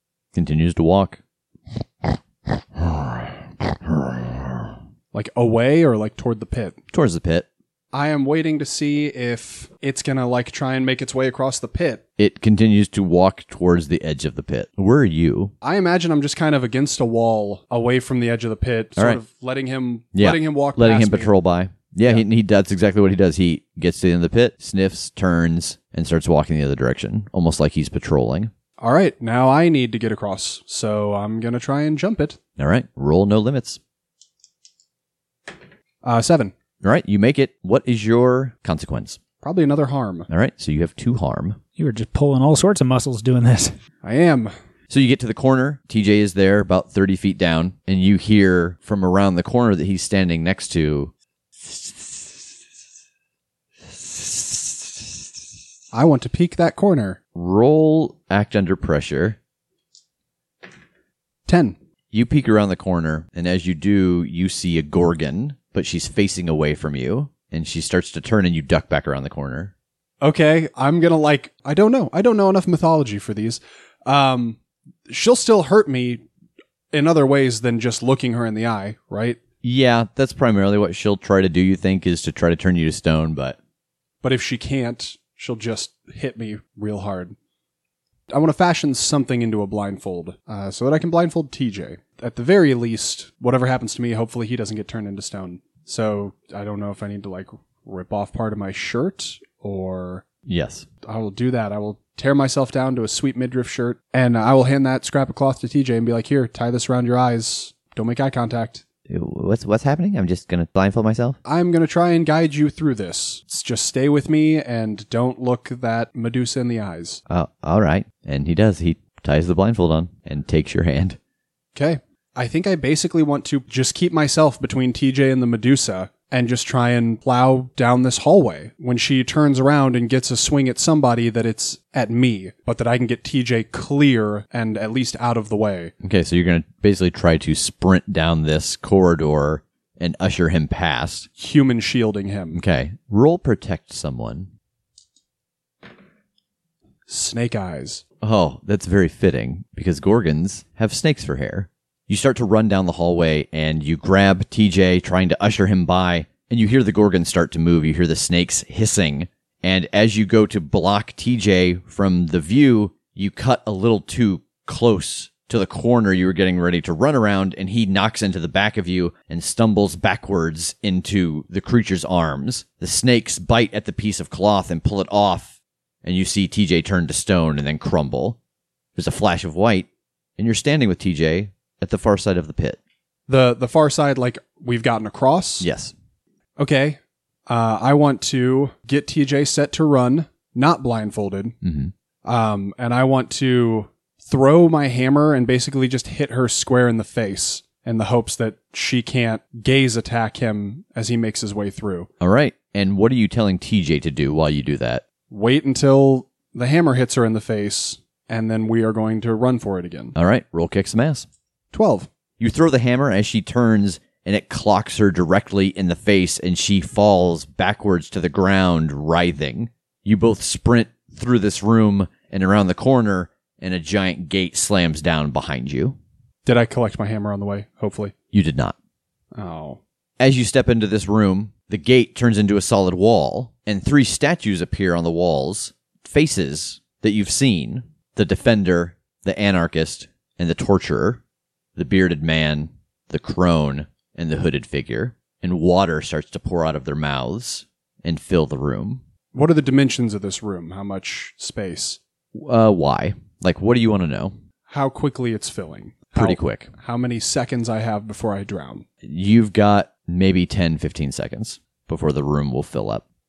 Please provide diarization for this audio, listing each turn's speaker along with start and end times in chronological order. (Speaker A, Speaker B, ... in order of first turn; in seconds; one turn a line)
Speaker A: 0.3-1.2
Speaker A: 2.8-3.3
Speaker A: 4.0-4.6
Speaker B: 5.1-6.8
Speaker A: 6.9-7.5
Speaker B: 7.9-12.0
Speaker A: 12.2-15.5
Speaker B: 15.6-21.3
Speaker A: 20.1-28.5
Speaker B: 28.8-32.4
Speaker A: 32.6-33.8
Speaker B: 36.0-36.5
Speaker A: 36.8-39.2
Speaker B: 39.4-40.3
Speaker A: 40.3-41.6
Speaker C: 41.8-43.8
Speaker B: 44.0-44.5
Speaker A: 44.9-52.5
Speaker A: 53.9-55.1
Speaker B: 55.9-57.2
Speaker A: 57.4-59.4
Speaker B: 61.5-61.8
Speaker A: 62.1-69.7
Speaker B: 70.2-74.6
Speaker B: 75.1-76.2
Speaker B: 76.9-79.4
Speaker A: 79.6-83.6
Speaker B: 84.2-87.3
Speaker B: 88.3-100.2
Speaker A: 100.5-100.9
Speaker B: 101.0-108.8
Speaker A: 109.1-111.4
Speaker B: 111.5-117.2
Speaker A: 117.3-121.2
Speaker B: 121.8-135.9
Speaker A: 136.0-141.3
Speaker B: 141.4-142.6
Speaker A: 142.5-144.5
Speaker B: 147.1-148.0
Speaker A: 148.2-178.4
Speaker A: 179.0-179.9
Speaker A: 180.4-182.8
Speaker B: 183.3-185.7
Speaker A: 185.6-185.9
Speaker B: 186.6-191.6
Speaker A: 191.6-191.9
Speaker B: 192.2-202.1
Speaker A: 202.2-205.0
Speaker B: 205.3-210.1
Speaker A: 210.2-211.3
Speaker B: 211.7-212.1
Speaker A: 212.4-226.0
Speaker B: 226.4-228.1
Speaker A: 228.3-228.8
Speaker B: 229.3-229.8
Speaker A: 230.2-241.2
Speaker A: 241.8-249.0
Speaker B: 249.3-252.0
Speaker A: 252.3-254.3
Speaker B: 254.7-258.9
Speaker A: 256.1-256.7
Speaker A: 259.0-263.0